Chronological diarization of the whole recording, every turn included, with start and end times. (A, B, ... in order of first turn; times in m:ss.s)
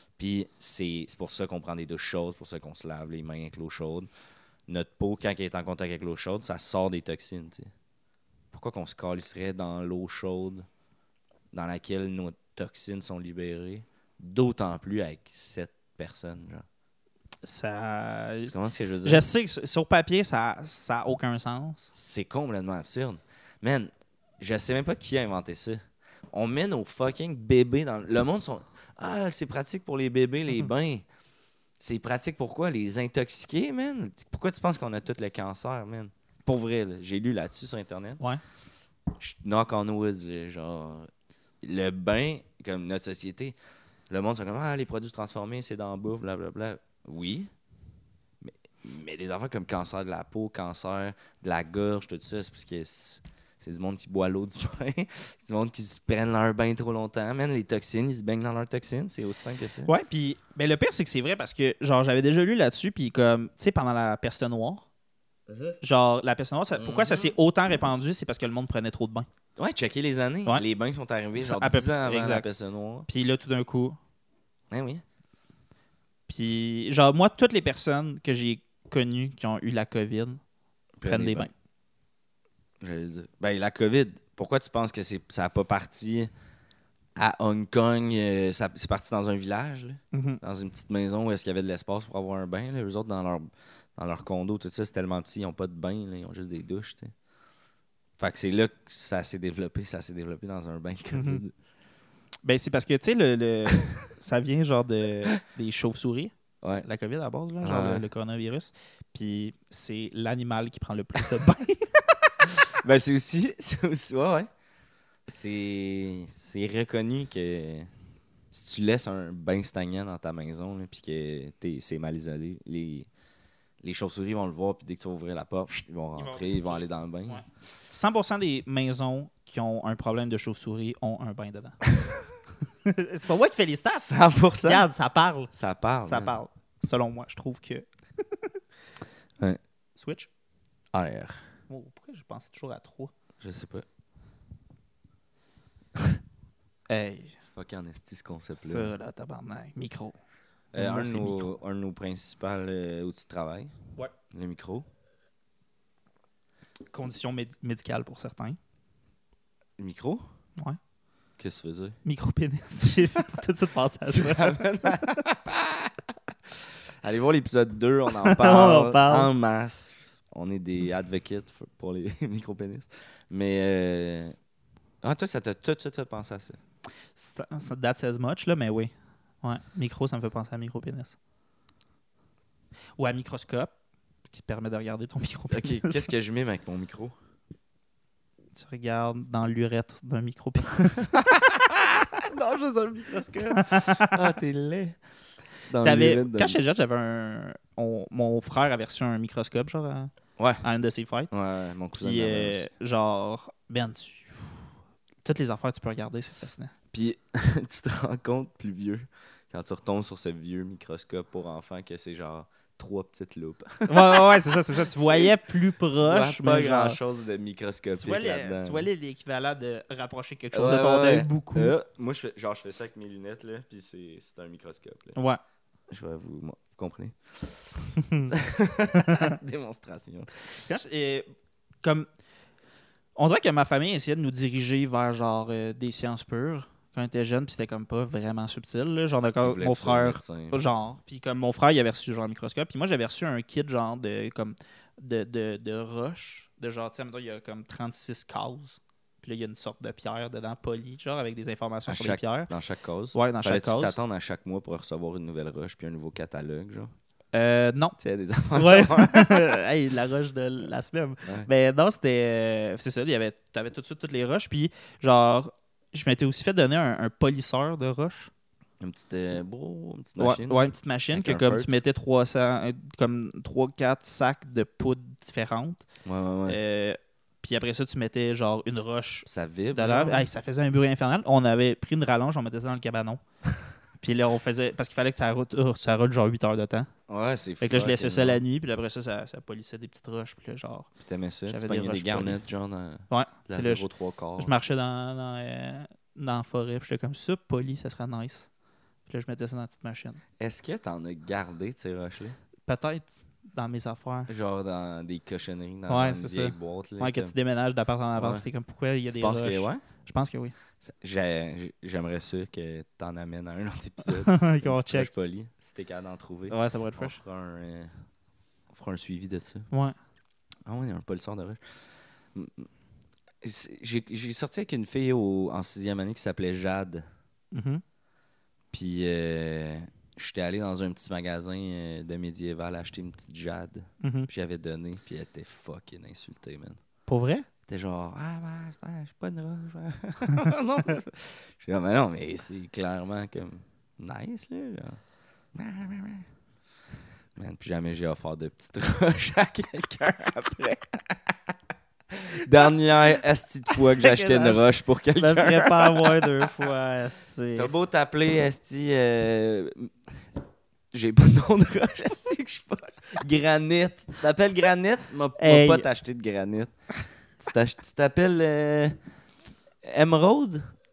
0:00.2-0:04.1 A
0:04.7-0:07.7 A
0:08.5-0:10.6 A
0:11.5-0:16.6 A
0:17.4-0:21.9 B
0:18.4-0:19.3 A
0:21.9-0:25.8 A
0:26.3-0:31.0 A
0:31.8-0:38.2 A
0:39.1-0:41.1 A
0:41.6-0:43.5 A
0:44.1-0:47.5 A
0:48.4-0:59.9 A
0:59.8-1:04.8 B
1:05.5-1:05.8 A
1:05.8-1:09.3 B
1:06.7-1:07.3 A
1:09.6-1:13.1 A
1:11.4-1:12.5 B
1:13.0-1:14.0 B
1:14.7-1:15.0 A
1:16.3-1:20.4 B
1:21.0-1:21.5 A
1:21.0-1:21.5 B
1:22.8-1:26.3 A
1:27.2-1:37.1 A
1:30.1-1:30.4 B
1:38.2-1:41.5 A
1:41.1-1:41.4 B
1:42.4-1:52.3 B
1:46.6-1:46.9 A
1:47.6-1:48.0 A
1:52.7-1:54.5 A
1:55.3-1:57.9 A
1:58.5-2:03.1 A
2:03.8-2:07.4 A
2:06.1-2:11.8 B
2:12.8-2:15.5 B
2:13.9-2:14.8 A
2:15.5-2:16.4 A
2:16.0-2:18.5 B
2:20.0-2:20.3 B
2:20.9-2:21.5 A
2:21.7-2:23.1 B
2:23.4-2:23.8 A
2:26.9-2:27.4 B
2:27.5-2:28.9 A
2:28.5-2:30.2 B
2:30.7-2:33.7 A
2:30.7-2:31.5 B
2:34.3-2:34.8 A
2:36.9-2:38.6 B
2:39.8-2:40.2 A
2:41.4-2:42.0 A
2:42.0-2:45.2 B
2:44.0-2:45.9 A
2:47.0-2:54.4 A
2:48.2-2:49.3 B
2:55.0-2:56.6 A
2:57.1-3:01.2 B
3:03.0-3:03.7 B
3:04.3-3:06.1 B
3:05.5-3:07.1 A
3:08.5-3:11.2 B
3:11.1-3:15.0 A
3:13.6-3:14.1 B
3:15.7-3:16.6 A
3:15.8-3:20.1 B
3:20.4-3:20.6 A
3:20.6-3:21.3 B
3:21.3-3:22.7 A
3:21.9-3:24.6 B
3:25.2-3:26.7 B
3:26.9-3:35.3 A
3:33.9-3:37.0 B
3:35.9-3:38.9 A
3:38.0-3:41.7 B
3:40.5-3:45.2 A
3:45.1-3:45.4 B
3:45.9-3:50.3 A
3:48.0-3:48.3 B
3:49.0-3:49.3 B
3:50.5-3:51.3 B
3:53.2-4:12.5 B
3:59.4-4:00.6 A
4:11.9-4:16.9 A
4:13.1-4:14.0 B
4:17.3-4:18.0 B
4:18.0-4:19.6 A
4:18.5-4:28.3 B
4:28.8-4:31.8 A
4:30.2-4:35.8 B
4:36.0-4:36.6 A
4:36.5-4:43.2 B
4:39.2-4:40.3 A
4:44.0-4:46.9 B
4:47.1-4:48.4 A
4:47.6-4:50.9 B
4:51.0-4:54.5 A
4:51.5-4:52.4 B
4:53.1-4:53.9 B
4:54.4-4:58.5 B
4:59.1-5:00.2 B
5:00.4-5:02.4 A
5:02.7-5:04.3 B
5:04.3-5:07.3 A
5:05.9-5:10.5 B
5:08.2-5:08.4 A
5:09.1-5:09.8 A
5:10.8-5:18.0 A
5:14.0-5:15.1 B
5:16.5-5:17.2 B
5:18.7-5:19.7 A
5:20.7-5:21.8 A
5:22.3-5:22.7 A
5:23.4-5:27.0 A
5:27.5-5:27.8 B
5:28.7-5:36.8 A
5:34.0-5:34.3 B
5:37.1-5:37.5 B
5:37.7-5:45.0 A
5:45.5-5:46.2 A
5:47.4-5:51.4 A
5:52.4-5:56.5 A
5:52.5-5:53.1 B
5:53.7-5:57.7 B
5:57.5-5:59.9 A
6:00.9-6:06.7 A
6:05.4-6:05.9 B
6:07.3-6:09.0 A
6:09.8-6:10.6 A